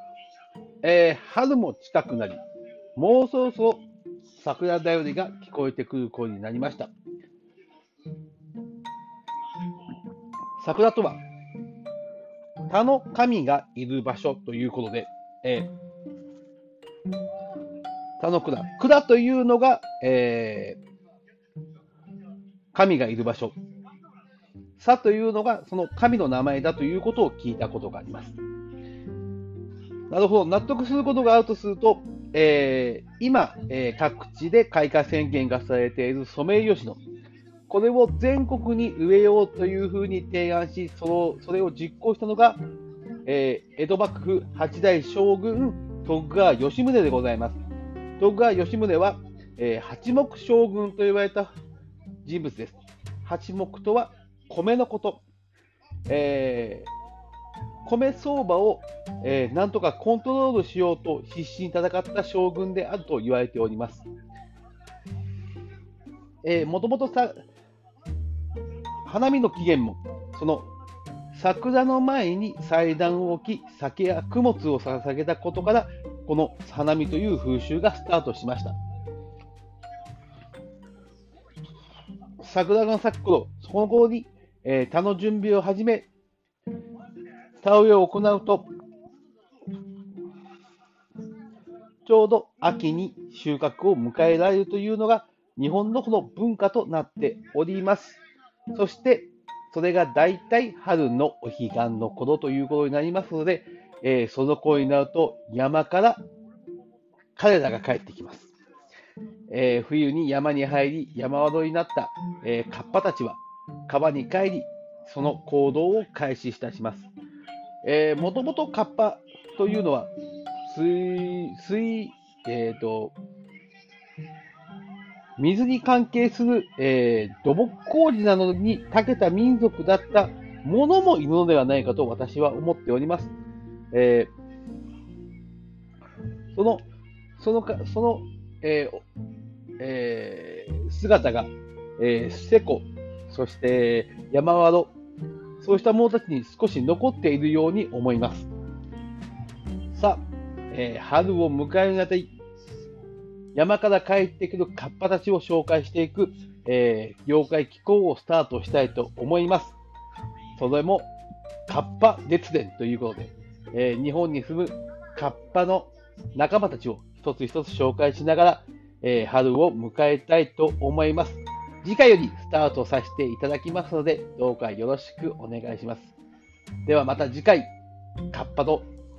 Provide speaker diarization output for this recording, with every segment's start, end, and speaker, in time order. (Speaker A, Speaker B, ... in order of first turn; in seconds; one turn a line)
Speaker A: 0.8-2.4
Speaker A: 3.0-3.8
Speaker A: 4.4-6.9
Speaker A: 10.6-11.2
Speaker A: 12.7-15.7
Speaker A: 18.2-20.8
Speaker A: 22.7-23.6
Speaker A: 24.8-28.4
Speaker A: 30.1-37.0
Speaker A: 37.7-42.6
Speaker A: 43.3-47.6
Speaker A: 48.2-51.5
Speaker A: 52.2-55.2
Speaker A: 56.1-56.9
Speaker A: 57.9-64.1
Speaker A: 66.4-67.4
Speaker A: 69.0-70.7
Speaker A: 71.3-78.8
Speaker A: 82.4-86.1
Speaker A: 87.6-88.7
Speaker A: 92.0-98.2
Speaker A: 98.7-106.2
Speaker A: 107.4-108.5
Speaker A: 109.5-117.1
Speaker A: 117.8-120.1
Speaker A: 120.7-123.2
Speaker A: 125.4-133.3
Speaker A: 133.9-134.3
Speaker A: 136.5-136.9
Speaker A: 137.4-139.0
Speaker A: 139.8-144.9
Speaker A: 145.6-148.5
Speaker A: 149.9-152.3
Speaker A: 153.5-159.8
Speaker A: 160.6-161.1
Speaker A: 161.7-176.2
Speaker A: 176.9-177.7
Speaker A: 178.3-178.9